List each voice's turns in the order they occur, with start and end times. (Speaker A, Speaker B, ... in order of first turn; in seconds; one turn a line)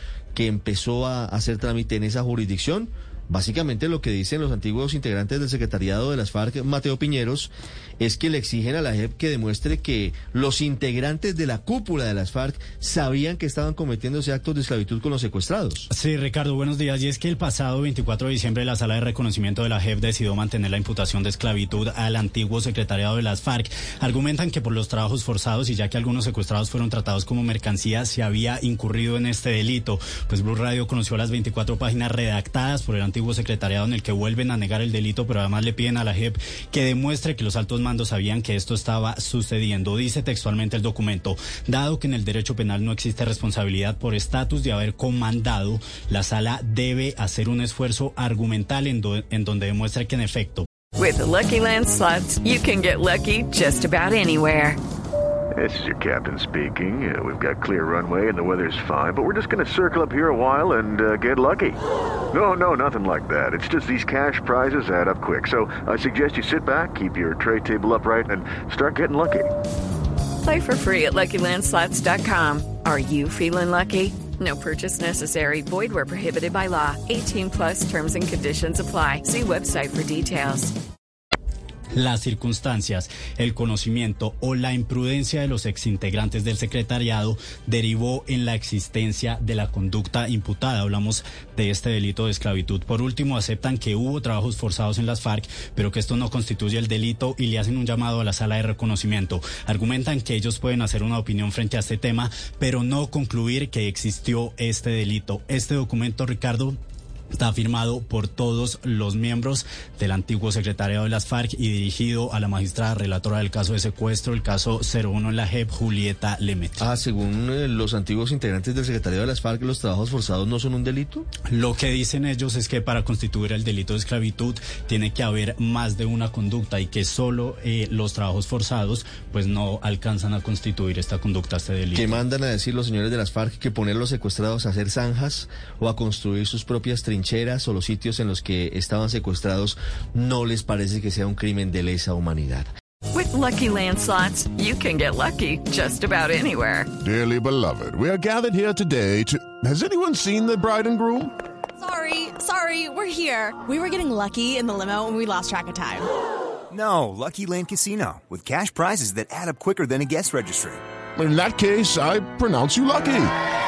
Speaker A: 0.3-15.9
Speaker B: 15.9-50.7
Speaker C: 51.0-54.8
Speaker D: 55.5-61.8
Speaker D: 62.3-69.5
Speaker C: 70.4-80.7
Speaker B: 81.9-106.8
Speaker B: 107.3-116.8
Speaker A: 116.8-121.2
Speaker B: 121.5-132.2
Speaker A: 131.9-142.7
Speaker C: 143.1-146.9
Speaker E: 147.0-151.3
Speaker F: 151.8-156.1
Speaker G: 156.7-160.8
Speaker E: 161.2-163.3